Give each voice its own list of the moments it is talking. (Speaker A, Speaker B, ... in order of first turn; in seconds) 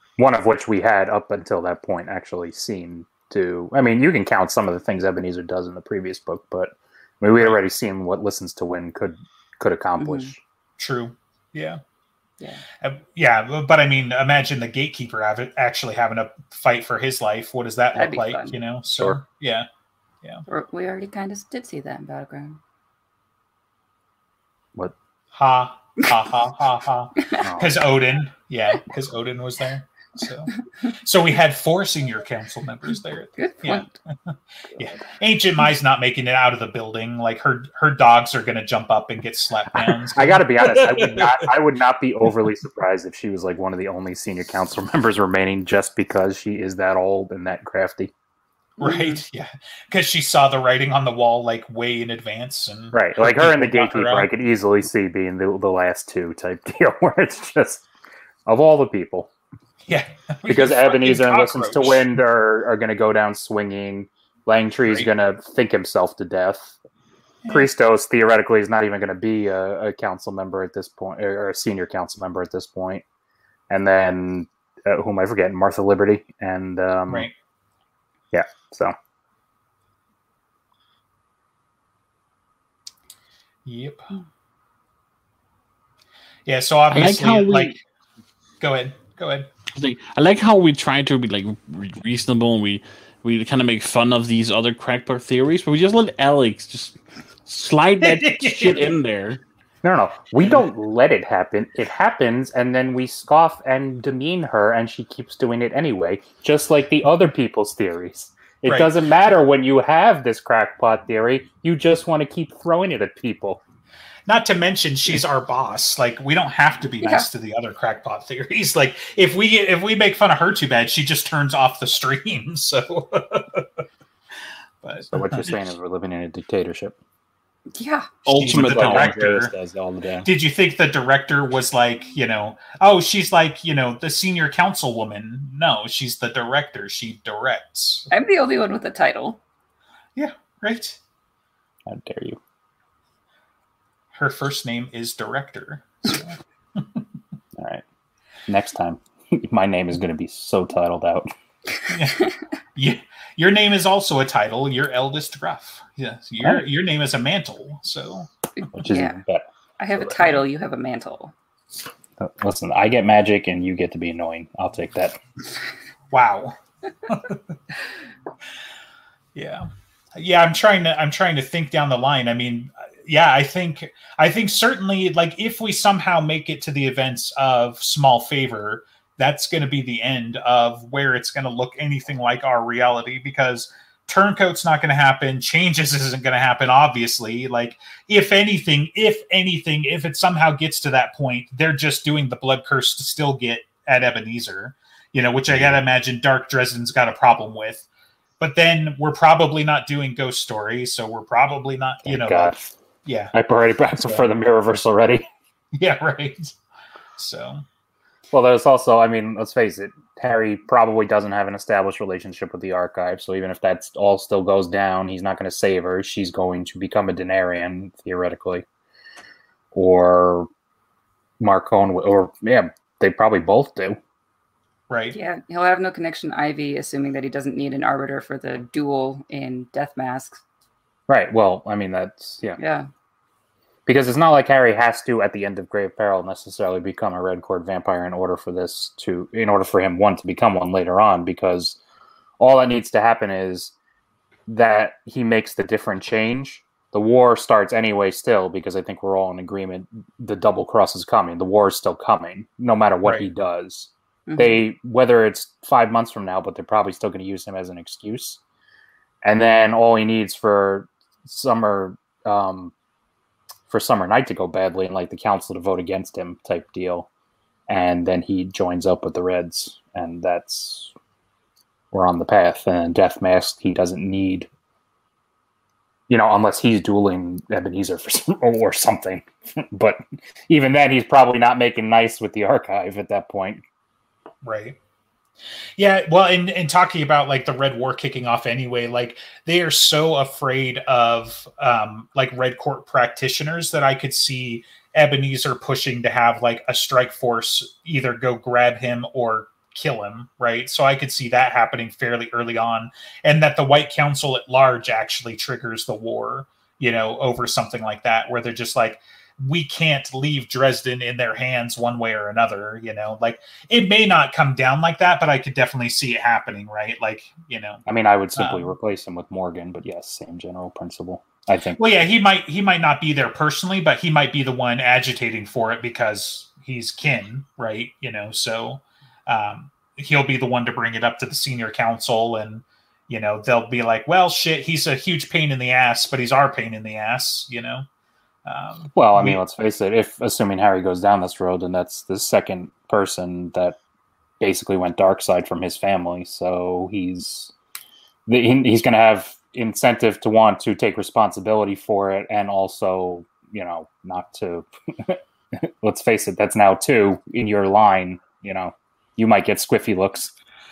Speaker A: 0.2-10.4, 27.4-27.8, 39.7-48.1, 52.9-57.8, 58.5-59.3, 60.5-66.8, 67.5-73.0, 73.7-77.3, 78.3-78.9, 99.8-113.6, 125.1-127.0, 128.3-130.3, 141.8-142.4, 147.6-147.8, 148.5-151.3, 158.7-159.4, 162.2-165.2, 195.5-195.8, 202.0-202.7, 203.3-205.3, 208.3-218.6, 219.7-220.5, 221.4-224.0, 231.1-232.6, 233.8-241.8, 242.4-243.7, 244.5-258.4, 259.2-262.7, 263.7-267.1, 267.7-270.9, 271.9-274.5, 276.1-283.6, 317.9-321.8, 338.9-343.8, 344.4-347.5, 348.3-360.3
Speaker B: 10.0-10.3, 17.9-18.6, 20.5-22.6, 33.4-33.9, 48.8-49.2, 127.7-128.2, 138.1-139.4, 158.8-159.2, 159.8-161.3, 225.1-230.4, 232.6-232.9, 254.3-254.6
Speaker C: 10.8-11.8, 12.8-19.7, 25.3-41.5, 48.8-54.3, 59.9-62.1, 67.4-67.7, 77.1-77.3, 83.7-84.1, 86.5-87.8, 88.6-89.5, 98.0-98.9, 108.7-108.9, 114.3-123.8, 124.8-125.6, 128.3-129.5, 130.2-138.1, 140.2-141.0, 144.1-147.0, 151.9-158.3, 166.1-167.4, 169.3-197.8, 198.4-202.5, 203.0-203.3, 205.8-206.5, 207.2-207.6, 224.9-225.2, 284.4-284.8, 285.8-317.8, 318.4-318.7, 321.8-337.8, 338.4-339.4
Speaker D: 86.9-87.7, 89.7-99.4, 128.2-129.2